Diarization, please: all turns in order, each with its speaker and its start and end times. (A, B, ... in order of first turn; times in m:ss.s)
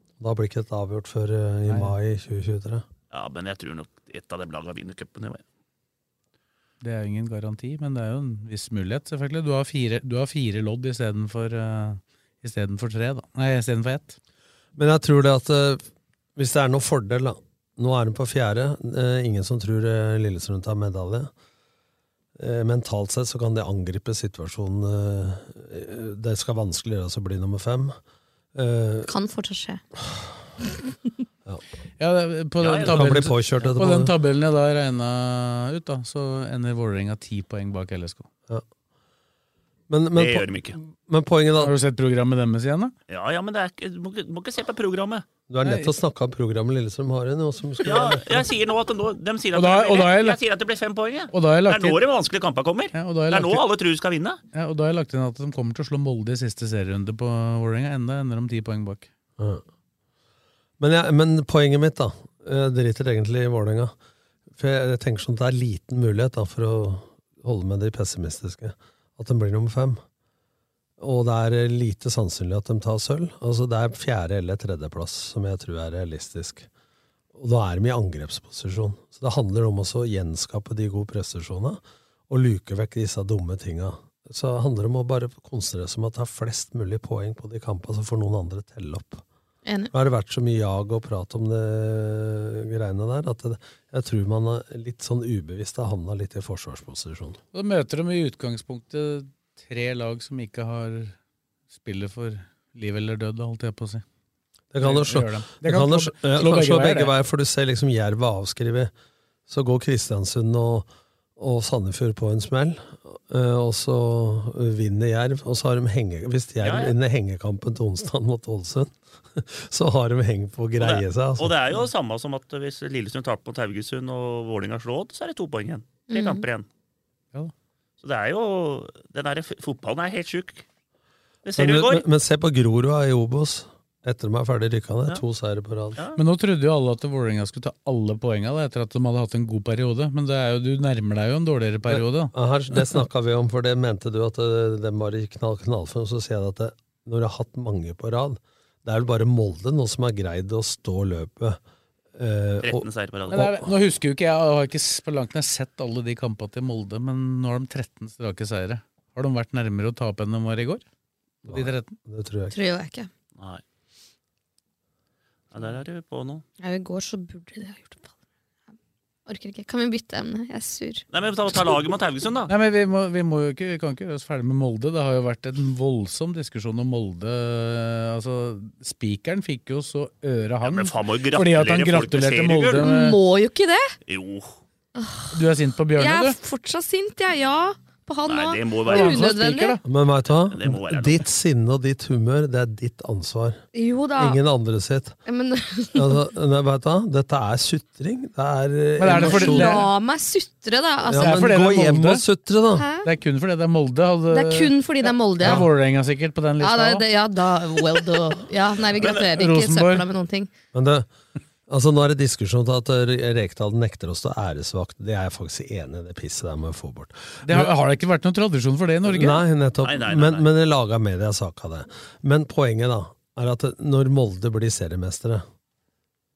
0:00.2-0:02.8 A
0:01.7-0:01.9 B
0:03.1-0:05.4 C
0:06.8-0:14.2 B
0:14.8-0:15.8 A
0:16.4-0:21.3 A
0:22.4-0:28.0 A
0:28.5-0:29.1 A
0:29.0-0:29.8 D
0:32.0-0:38.3 B
0:32.6-0:33.0 C
0:32.8-0:34.1 A
0:39.9-0:41.7 A
0:40.2-0:40.8 C
0:41.6-0:42.9 B
0:43.1-0:45.2 C
0:45.5-0:48.4 A
0:45.6-0:45.9 B
0:47.8-0:54.4 C
0:49.5-0:50.4 B
0:51.3-0:52.0 B
0:52.9-0:53.6 B
0:54.5-0:59.1 B
0:59.4-0:59.6 A
1:00.8-1:03.9 A
1:04.6-1:10.0 A
1:11.0-1:16.7 A
1:17.3-1:29.2 A
1:29.6-1:29.9 D
1:29.9-1:37.4 A
1:37.5-1:41.1 B
1:41.7-1:44.0 B
1:44.7-1:48.9 A
1:44.8-1:47.1 B
1:49.5-2:01.5 A
1:56.6-1:56.9 C
2:00.8-2:06.7 C
2:06.1-2:06.4 D
2:08.0-2:10.6 C
2:11.4-2:12.0 C
2:11.6-2:16.0 A
2:16.2-2:22.3 B
2:21.9-2:31.6 A
2:32.1-2:33.7 A
2:32.6-2:33.4 C
2:33.3-2:40.8 B
2:41.4-2:42.6 A
2:41.5-2:41.9 B
2:42.5-2:43.1 D
2:45.5-2:46.4 C
2:46.6-2:48.1 D
2:49.3-2:51.0 D
2:51.1-2:52.5 C
2:52.5-3:03.2 B
3:00.6-3:02.8 C
3:02.8-3:03.9 D
3:04.1-3:04.6 C
3:05.0-3:05.3 D
3:05.3-3:06.4 B
3:06.0-3:09.8 D
3:08.2-3:09.3 C
3:08.9-3:09.8 B
3:09.8-3:13.6 A
3:10.4-3:11.2 C
3:13.7-3:14.4 D
3:14.2-3:15.2 A
3:15.2-3:16.2 D
3:15.9-3:19.9 A
3:19.0-3:19.8 B
3:19.1-3:21.4 D
3:21.0-3:22.9 A
3:21.1-3:22.2 B
3:22.7-3:23.1 D
3:23.0-3:27.0 B
3:24.3-3:25.7 D
3:26.6-3:30.5 D
3:29.0-3:29.2 C
3:29.1-3:30.0 B
3:30.7-3:31.1 A
3:31.7-3:37.7 A
3:37.4-3:39.4 B
3:39.0-3:45.4 A
3:39.8-3:40.4 C